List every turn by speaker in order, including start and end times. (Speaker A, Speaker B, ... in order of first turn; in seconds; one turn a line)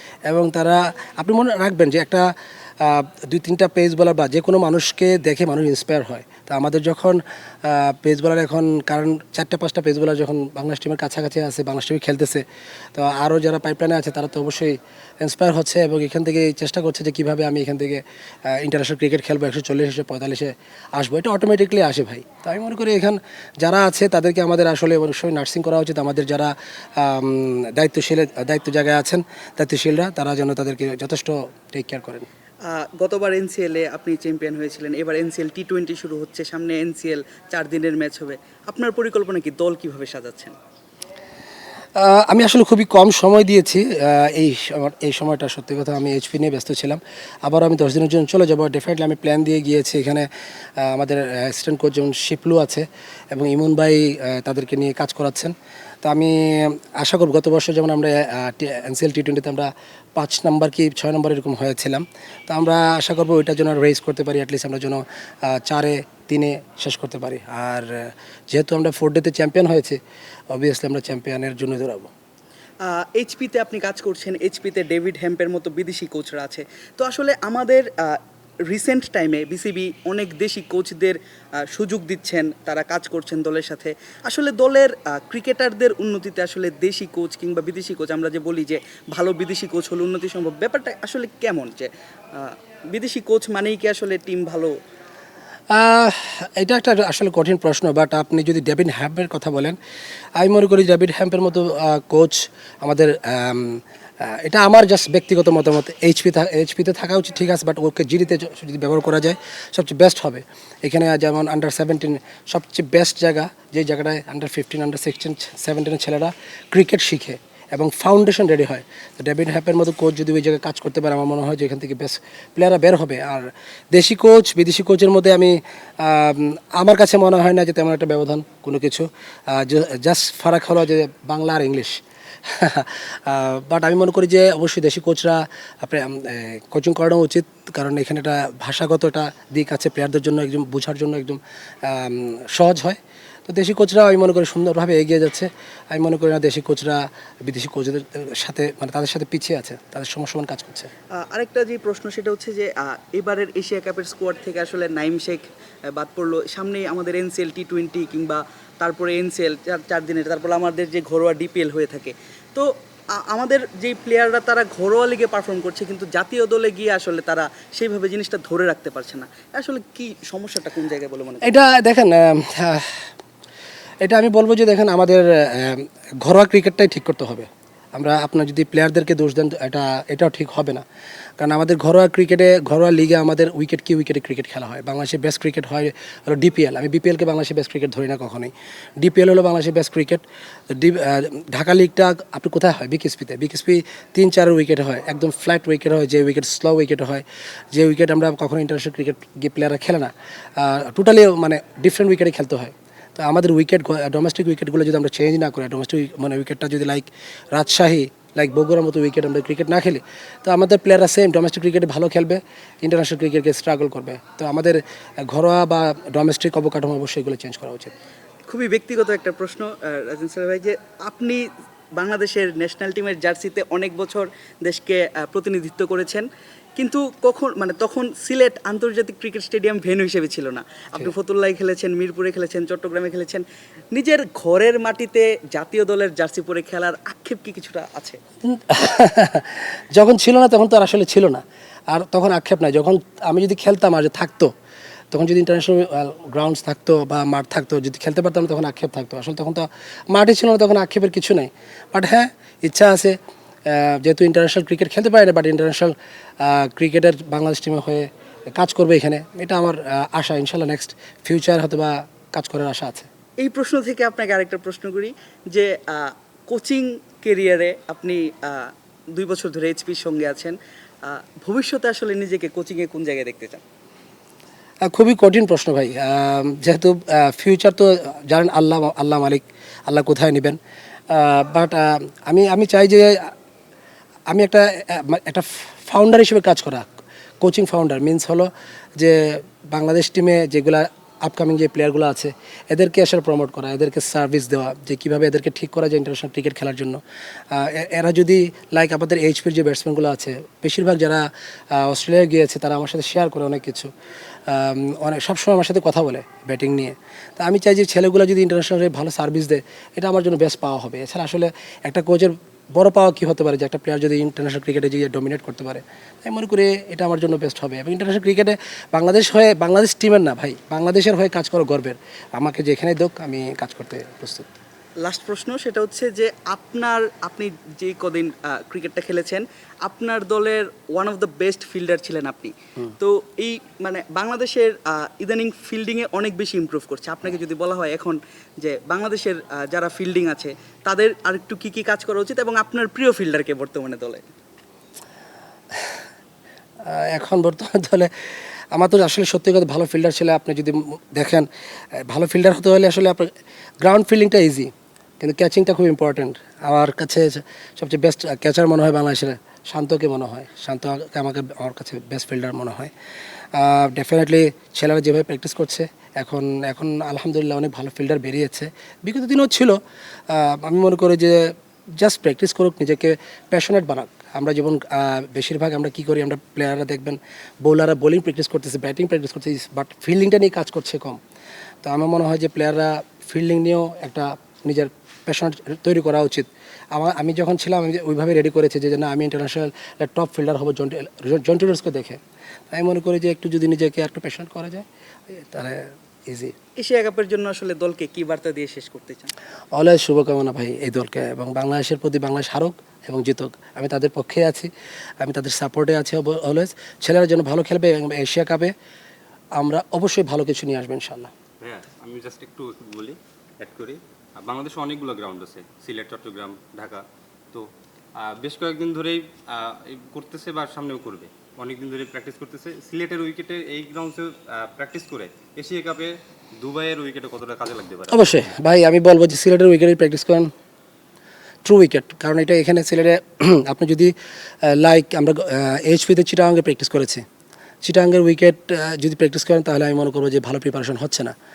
Speaker A: 0.3-12.4
Speaker A: 12.9-32.3
Speaker B: 32.6-40.5
Speaker A: 42.0-72.1
Speaker B: 72.8-94.7
Speaker A: 95.7-99.8
Speaker A: 100.4-150.9
Speaker B: 151.1-171.5
Speaker A: 171.4-173.1
Speaker A: 174.0-180.8
Speaker A: 181.4-217.9
Speaker B: 218.5-238.2
Speaker A: 238.4-244.5
Speaker A: 245.1-263.1
Speaker B: 263.4-273.6
Speaker A: 274.8-280.6
Speaker A: 281.1-283.3
Speaker A: 284.3-286.9
Speaker A: 287.4-303.9
Speaker A: 304.5-324.6
Speaker B: 325.0-344.3
Speaker A: 346.8-348.1
Speaker A: 348.7-362.9
Speaker A: 363.5-381.2
Speaker A: 381.8-396.6
Speaker B: 396.8-399.3
Speaker A: 399.7-408.7
Speaker A: 409.6-411.3
Speaker C: 411.6-428.5
Speaker A: 428.1-430.5
Speaker A: 431.6-437.2
Speaker A: 437.8-441.3